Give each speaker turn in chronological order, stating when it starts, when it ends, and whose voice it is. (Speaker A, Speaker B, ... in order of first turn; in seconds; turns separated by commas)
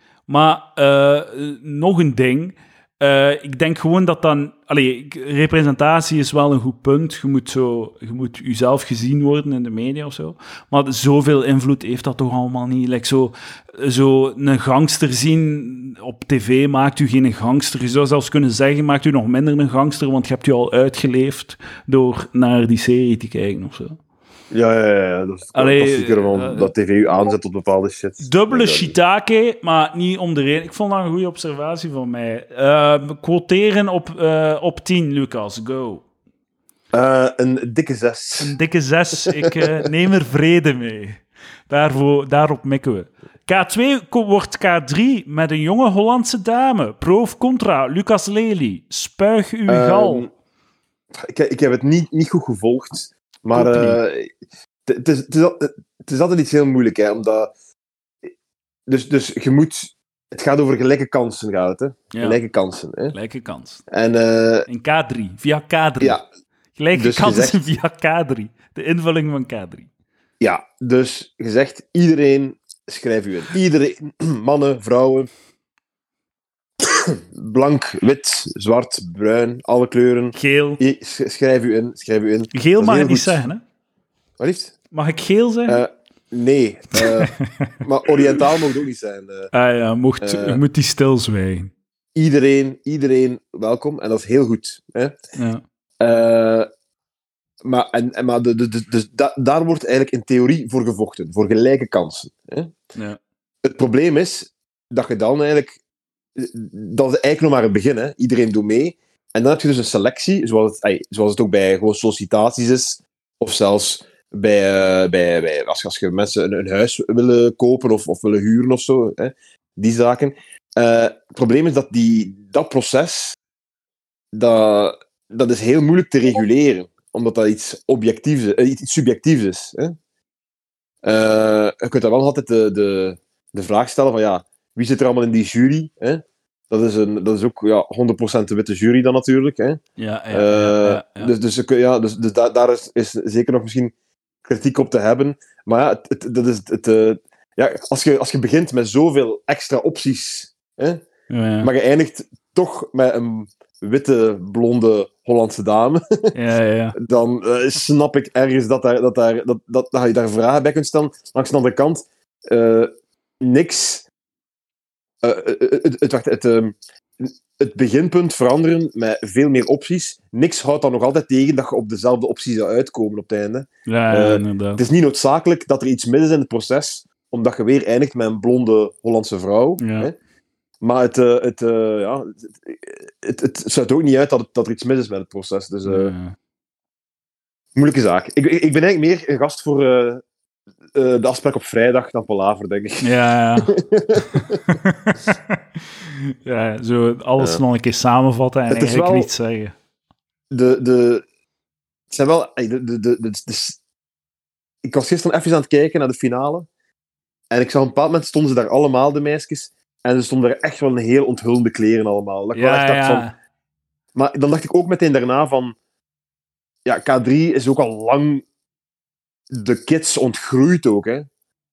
Speaker A: 0.3-24.0, Speaker B: 24.5-28.9, Speaker A: 25.5-26.7, Speaker A: 28.2-36.0, Speaker B: 36.9-38.5, Speaker A: 38.4-50.3, Speaker B: 39.2-39.7, Speaker B: 49.7-50.3, Speaker B: 51.1-54.3, Speaker A: 53.5-54.0, Speaker B: 54.9-57.5, Speaker B: 58.9-63.1, Speaker A: 62.1-62.4, Speaker A: 63.1-63.8, Speaker B: 63.9-64.7, Speaker A: 64.7-66.2, Speaker A: 66.8-69.9, Speaker B: 67.0-67.7, Speaker B: 70.4-75.3, Speaker B: 76.8-83.4, Speaker A: 80.3-80.8, Speaker A: 82.5-83.6, Speaker B: 84.4-84.7, Speaker A: 84.9-85.8, Speaker B: 85.7-89.5, Speaker A: 87.0-87.7, Speaker A: 89.5-91.7, Speaker B: 90.2-90.6, Speaker B: 92.2-95.2, Speaker A: 95.4-95.6, Speaker B: 96.0-96.7, Speaker B: 97.6-102.8, Speaker B: 103.6-105.8, Speaker B: 106.4-123.4, Speaker B: 124.3-130.0, Speaker B: 131.0-139.8, Speaker A: 140.0-141.3, Speaker B: 140.3-143.9, Speaker B: 144.4-151.0, Speaker A: 151.3-151.7, Speaker B: 151.6-156.3, Speaker A: 156.3-156.9, Speaker B: 157.0-164.1, Speaker B: 165.2-180.1, Speaker A: 173.9-174.8, Speaker A: 179.8-180.1, Speaker B: 180.8-186.1, Speaker A: 185.8-186.3, Speaker B: 187.8-190.2, Speaker B: 190.9-193.1, Speaker A: 193.0-193.7, Speaker B: 193.7-194.6, Speaker A: 194.3-195.6, Speaker A: 196.4-199.8, Speaker B: 198.7-199.3, Speaker B: 200.5-201.2, Speaker B: 202.1-203.8, Speaker B: 204.8-206.7, Speaker B: 207.5-213.3, Speaker A: 212.6-213.3, Speaker B: 214.2-215.8, Speaker B: 216.8-218.4, Speaker B: 219.5-221.3